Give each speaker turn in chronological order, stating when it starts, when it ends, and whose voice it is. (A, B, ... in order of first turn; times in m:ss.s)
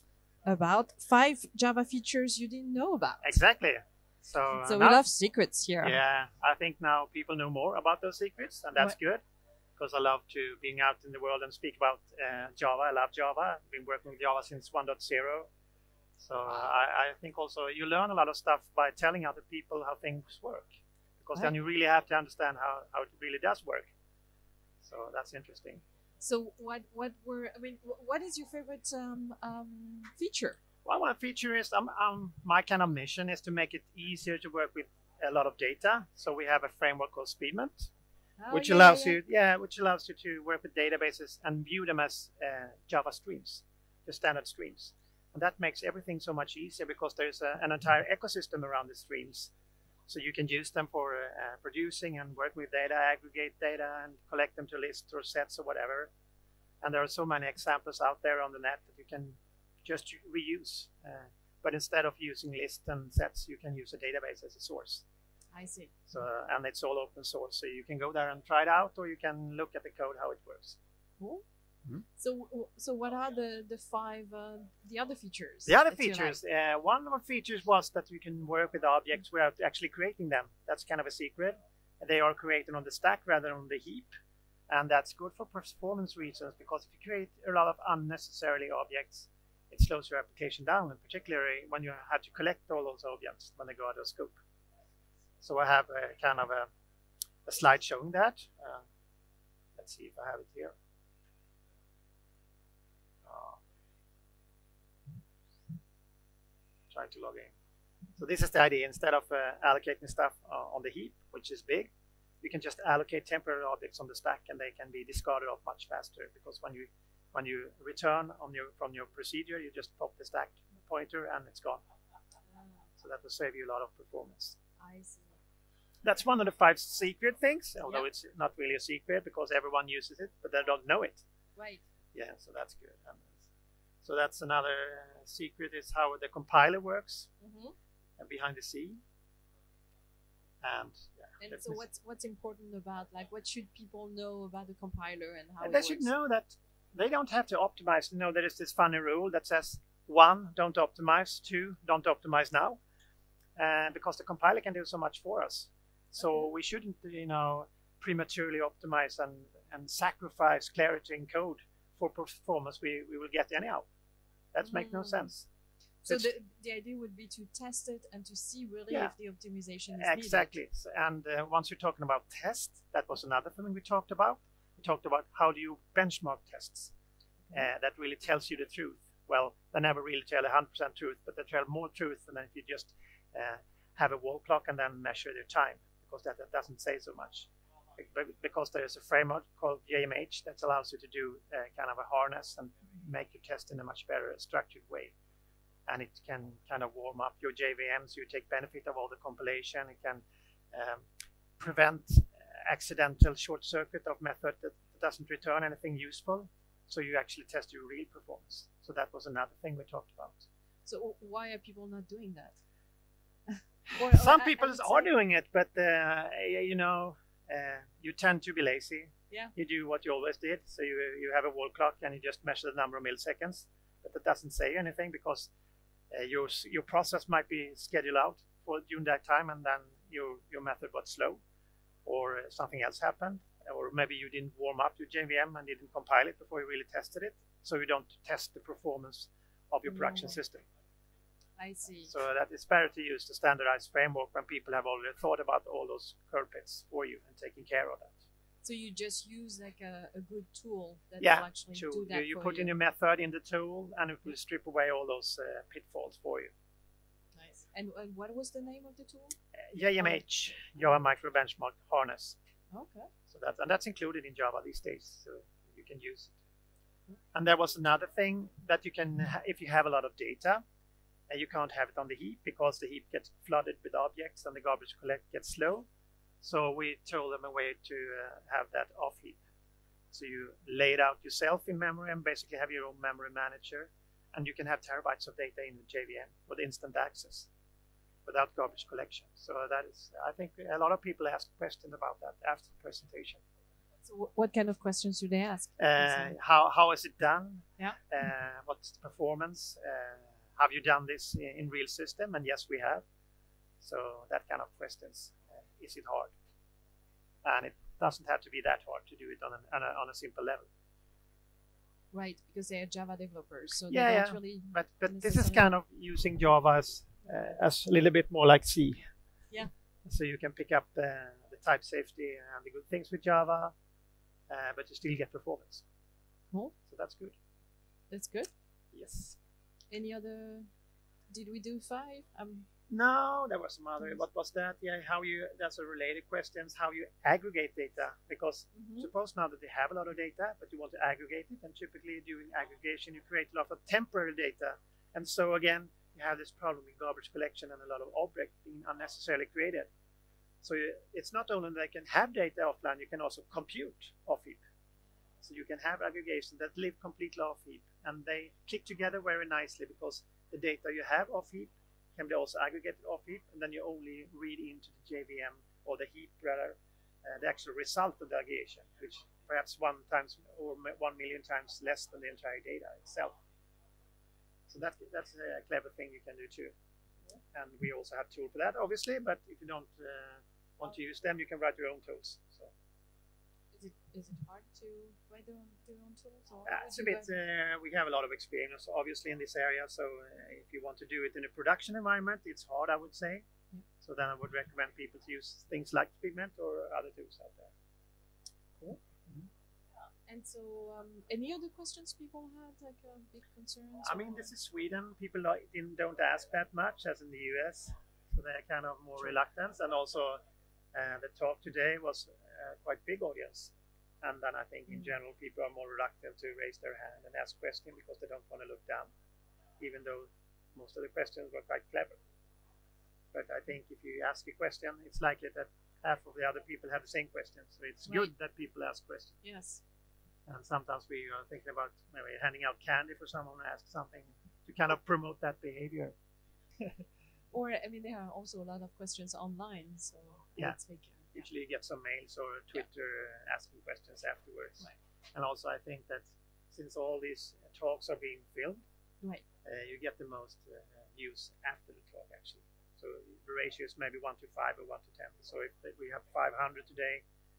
0:00.4-0:03.4 A
0:03.2-0:05.0 B
0:04.5-0:06.0 A
0:05.8-0:09.2 B
0:09.8-0:15.5 B
0:16.2-0:23.9 B
0:24.8-0:25.8 B
0:26.2-0:30.6 A
0:30.8-0:37.9 B
0:38.4-0:39.2 A
0:38.5-0:49.5 B
0:50.1-0:56.1 B
0:56.8-1:05.0 B
1:05.5-1:05.9 A
1:06.1-1:10.8 B
1:11.2-1:11.4 A
1:12.2-1:16.4 A
1:15.6-1:24.1 B
1:24.7-1:34.4 B
1:35.4-1:36.7 B
1:37.4-1:38.8 B
1:39.8-1:40.7 B
1:43.2-1:43.6 B
1:46.9-1:47.5 B
1:48.2-2:01.8 B
2:02.5-2:02.9 A
2:03.0-2:04.6 B
2:04.8-2:05.4 A
2:06.0-2:11.2 B
2:11.6-2:11.8 A
2:12.1-2:13.4 B
2:14.0-2:17.3 B
2:17.4-2:17.7 A
2:18.2-2:19.0 B
2:20.6-2:21.8 B
2:21.4-2:26.1 A
2:25.6-2:32.8 B
2:33.6-2:43.9 B
2:44.5-2:45.5 B
2:44.6-2:45.2 A
2:46.0-2:50.5 A
2:46.0-2:46.3 B
2:48.9-2:49.1 B
2:49.9-2:56.9 B
2:57.5-3:15.2 B
3:15.9-3:21.1 B
3:21.6-3:30.5 B
3:30.8-3:32.6 A
3:33.9-3:35.1 A
3:33.9-3:45.5 B
3:46.1-3:51.4 B
3:52.0-4:00.6 B
3:59.9-4:00.4 A
4:01.6-4:02.1 A
4:02.0-4:08.2 B
4:08.6-4:12.7 A
4:11.2-4:16.5 B
4:17.3-4:19.4 A
4:19.7-4:22.4 B
4:22.7-4:23.1 A
4:23.3-4:26.4 B
4:27.3-4:30.6 B
4:31.3-4:35.9 B
4:36.4-4:39.4 B
4:40.1-4:47.5 B
4:48.2-4:53.4 B
4:54.0-4:56.3 A
4:55.8-5:03.0 B
5:03.8-5:06.3 B
5:07.4-5:10.7 B
5:12.1-5:15.7 A
5:13.9-5:19.1 B
5:20.0-5:23.7 B
5:24.5-5:25.8 B
5:26.8-5:27.4 B
5:28.1-5:28.5 A
5:28.9-5:29.4 B
5:29.9-5:30.7 A
5:31.3-5:32.7 A
5:32.9-5:49.9 B
5:38.8-5:39.1 A
5:50.6-5:54.6 B
5:55.4-6:13.4 B
6:14.7-6:16.7 B
6:17.5-6:22.7 B
6:23.7-6:27.3 A
6:26.6-6:33.4 B
6:34.0-6:37.7 B
6:38.8-6:39.5 B
6:40.3-6:44.5 A
6:44.0-6:50.4 B
6:50.9-6:59.1 B
6:59.8-7:02.2 B
7:03.3-7:09.4 B
7:08.0-7:08.3 A
7:09.4-7:09.8 A
7:10.5-7:16.1 B
7:17.5-7:21.4 A
7:21.3-7:28.8 B
7:29.6-7:37.2 B